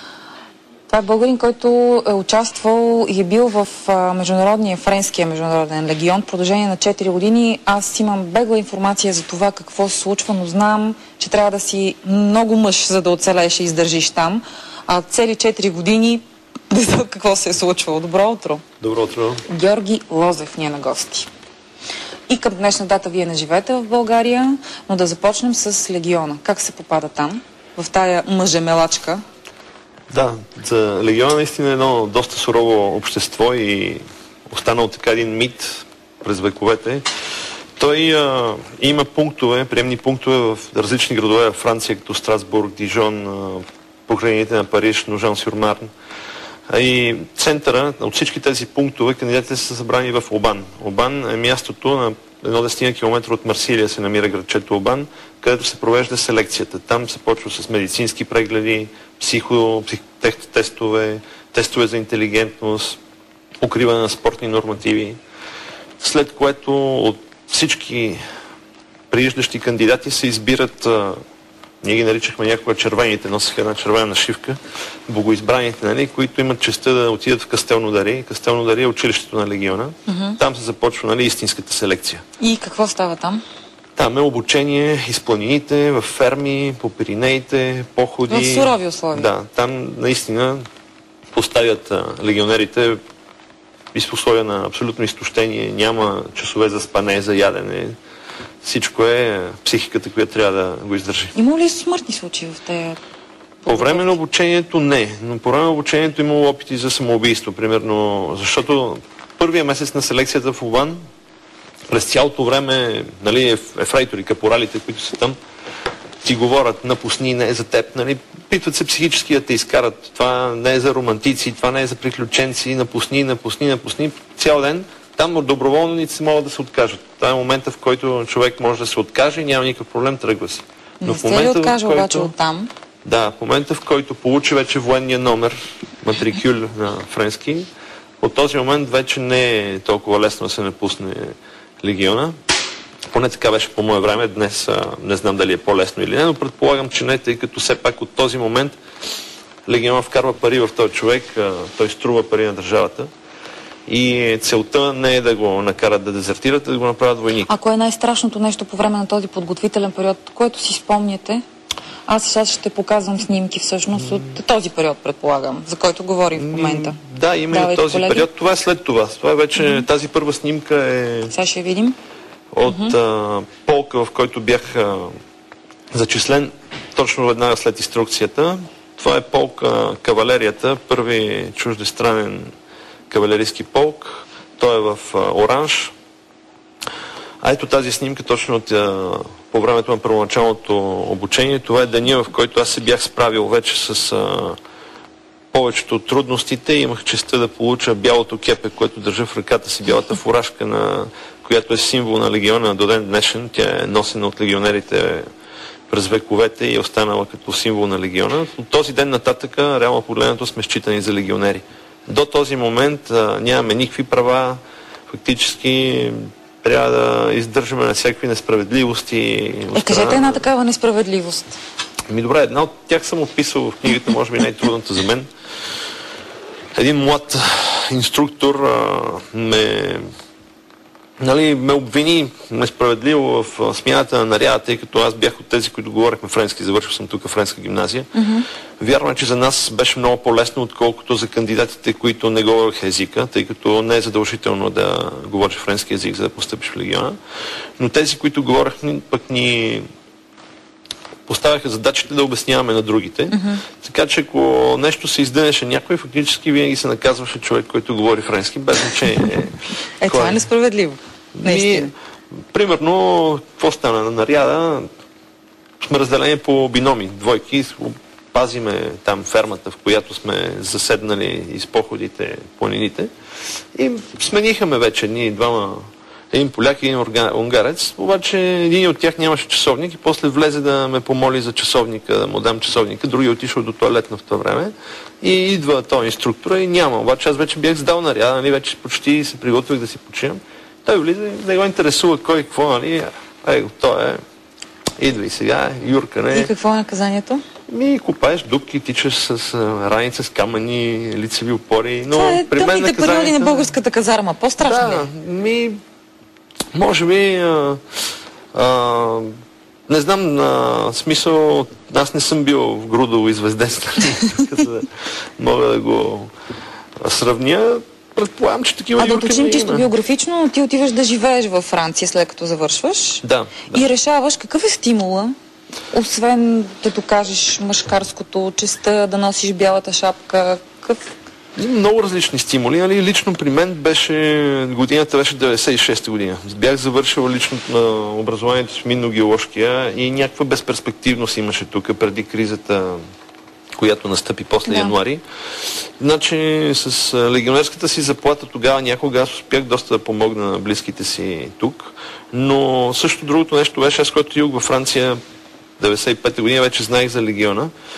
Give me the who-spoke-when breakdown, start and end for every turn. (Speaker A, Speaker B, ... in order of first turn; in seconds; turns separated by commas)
Speaker A: 0.9-18.6, Speaker B: 18.8-19.4, Speaker A: 19.5-21.3, Speaker A: 22.3-29.2, Speaker B: 30.1-37.0, Speaker B: 37.8-45.9, Speaker B: 46.7-63.0, Speaker B: 63.6-65.2, Speaker B: 66.0-68.2, Speaker B: 69.1-71.2, Speaker B: 71.8-82.2, Speaker A: 80.1-80.4, Speaker A: 82.4-83.4, Speaker B: 84.0-90.6, Speaker A: 88.3-89.3, Speaker B: 91.3-93.0, Speaker B: 93.9-97.9, Speaker B: 98.6-101.3, Speaker A: 101.3-103.0, Speaker A: 103.7-104.1, Speaker B: 103.7-111.0, Speaker B: 111.9-115.4, Speaker B: 116.2-132.3, Speaker A: 131.0-132.7, Speaker B: 133.0-137.7, Speaker B: 138.2-142.3, Speaker B: 143.1-148.8, Speaker B: 149.7-153.1, Speaker B: 153.9-157.5, Speaker A: 157.5-161.4, Speaker A: 162.1-167.0, Speaker B: 166.3-171.3, Speaker A: 167.5-168.3, Speaker A: 171.3-171.9, Speaker B: 172.5-175.1, Speaker A: 172.7-172.9, Speaker B: 175.9-182.5, Speaker B: 183.1-185.9, Speaker B: 187.4-194.6, Speaker B: 195.5-205.2, Speaker B: 205.9-220.4, Speaker A: 219.7-221.6, Speaker B: 222.1-225.3, Speaker B: 226.8-230.1, Speaker B: 231.2-238.1, Speaker A: 238.1-238.4, Speaker B: 238.8-247.2, Speaker B: 247.8-249.9, Speaker B: 251.3-260.5, Speaker A: 253.3-253.6, Speaker A: 260.0-261.9, Speaker B: 261.3-261.9, Speaker B: 262.5-264.9, Speaker B: 265.8-273.1, Speaker B: 273.8-294.2, Speaker B: 295.0-296.5, Speaker A: 296.3-297.4, Speaker B: 297.7-303.7, Speaker A: 302.1-305.1, Speaker B: 304.6-305.8, Speaker B: 306.7-308.0, Speaker B: 308.5-309.3, Speaker B: 309.9-316.3, Speaker B: 317.0-319.9, Speaker A: 319.0-325.3, Speaker B: 323.2-323.9, Speaker A: 325.9-331.1, Speaker B: 331.6-343.0, Speaker B: 343.8-355.2, Speaker A: 344.6-344.9, Speaker B: 355.8-357.7